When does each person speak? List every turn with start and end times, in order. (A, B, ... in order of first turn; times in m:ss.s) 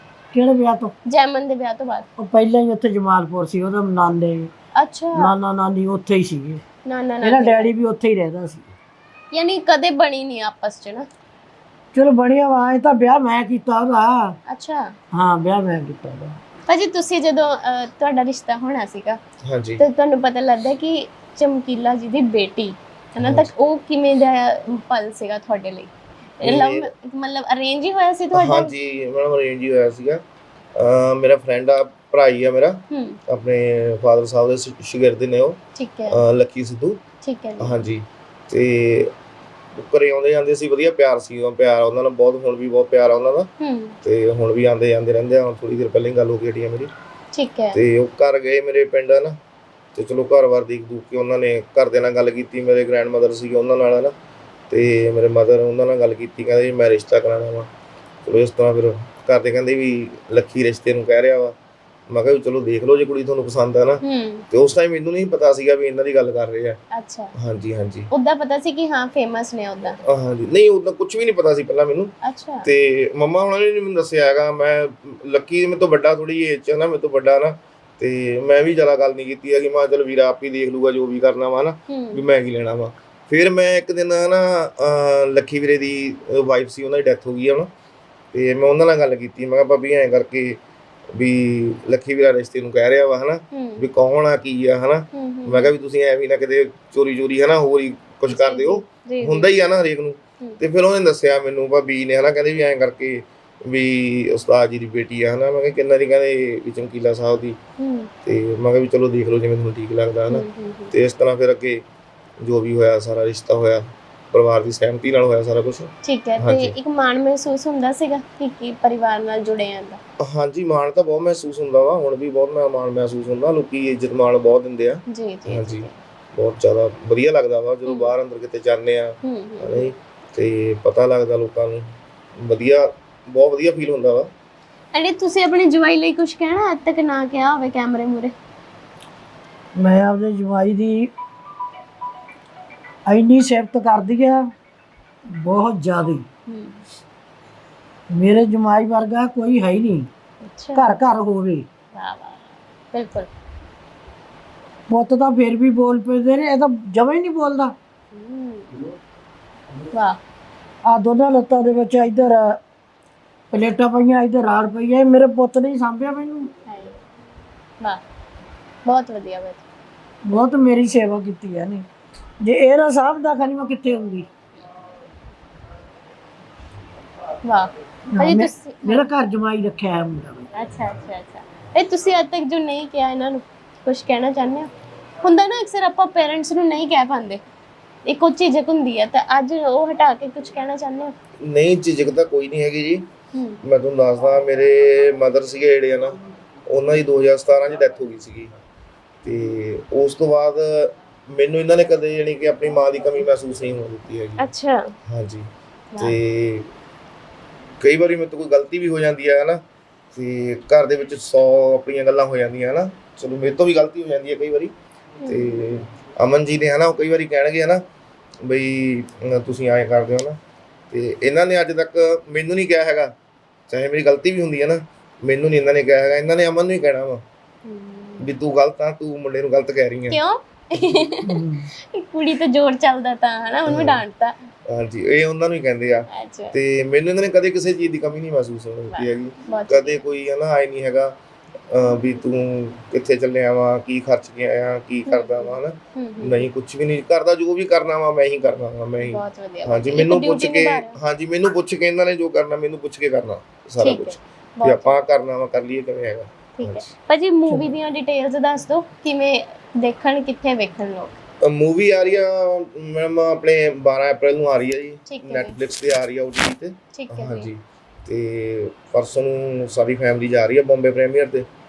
0:00.3-0:00.9 A
0:01.1-0:02.1 B
0:02.2-0:04.5 A
0:04.8-0:05.3 B
0:05.2-0:06.6 A
0:06.8-0:07.7 B
0:07.2-0:08.7 A
0:09.3-0:11.1 B
0:11.9-0:14.4 A
0:14.5-0:14.9 B
0:15.1-0:16.4 A
0:16.7-0:19.2 B
0:19.5-0:19.8 C
0:19.8-0:28.7 B
0:23.2-0:23.5 C
0:26.4-0:26.9 C
0:28.3-0:30.2 C
0:30.8-0:37.0 C
0:32.9-0:33.2 B
0:35.8-0:36.2 B
0:37.2-0:37.8 B
0:37.6-0:39.1 C
0:39.8-0:43.5 C
0:43.6-0:44.0 B
0:44.0-0:46.9 C
0:47.3-0:47.8 B
0:47.7-0:49.4 C
0:50.0-0:54.1 C
0:54.7-0:57.7 C
0:58.2-1:01.5 C
1:02.1-1:06.8 C
1:04.0-1:04.4 B
1:06.9-1:07.3 B
1:07.4-1:08.1 C
1:08.1-1:10.0 B
1:10.1-1:12.1 C
1:12.2-1:12.7 B
1:12.6-1:27.7 C
1:21.9-1:22.2 B
1:28.3-1:30.6 C
1:31.1-1:47.6 C
1:33.5-1:33.9 B
1:35.1-1:35.7 B
1:38.3-1:39.5 B
1:47.8-1:48.1 B
1:48.2-1:51.8 C
1:50.3-1:50.9 B
1:52.4-1:56.8 C
1:56.0-2:00.0 B
2:00.2-2:11.9 C
2:05.1-2:05.9 B
2:07.9-2:08.1 B
2:09.2-2:09.9 B
2:12.4-2:14.3 C
2:14.9-2:18.3 B
2:19.8-2:21.1 A
2:23.1-2:24.4 A
2:25.4-2:26.3 A
2:26.5-2:26.8 B
2:28.1-2:30.1 A
2:30.4-2:30.9 B
2:30.8-2:31.7 A
2:31.9-2:33.3 B
2:34.9-2:37.7 A
2:38.1-2:38.8 B
2:39.9-2:40.2 B
2:40.9-2:42.6 A
2:43.5-2:46.5 A
2:46.7-2:47.0 B
2:48.9-2:49.6 B
2:50.3-2:51.8 A
2:52.4-2:54.3 A
2:57.4-2:59.0 B
2:58.1-3:00.5 A
3:00.5-3:04.7 B
3:05.2-3:07.4 B
3:08.1-3:11.1 B
3:11.4-3:13.1 C
3:13.3-3:13.6 B
3:13.6-3:16.2 C
3:16.7-3:18.5 C
3:19.2-3:24.5 C
3:24.4-3:24.9 B
3:25.1-3:26.7 C
3:27.8-3:29.6 C
3:30.1-3:34.7 C
3:35.2-3:35.6 B
3:35.3-3:37.8 C
3:38.4-3:40.4 C
3:40.9-3:43.1 C
3:43.7-3:47.2 C
3:47.7-3:48.3 B
3:48.2-3:50.2 C
3:50.1-3:54.4 B
3:51.2-3:51.7 A
3:53.7-3:54.0 C
3:54.7-4:01.2 C
3:56.1-3:56.6 B
3:58.9-4:00.1 B
4:01.7-4:16.9 C
4:05.1-4:06.5 B
4:09.0-4:11.0 B
4:13.8-4:15.0 B
4:16.6-4:21.2 B
4:17.5-4:17.7 A
4:21.4-4:31.5 C
4:25.1-4:25.6 B
4:26.9-4:27.5 B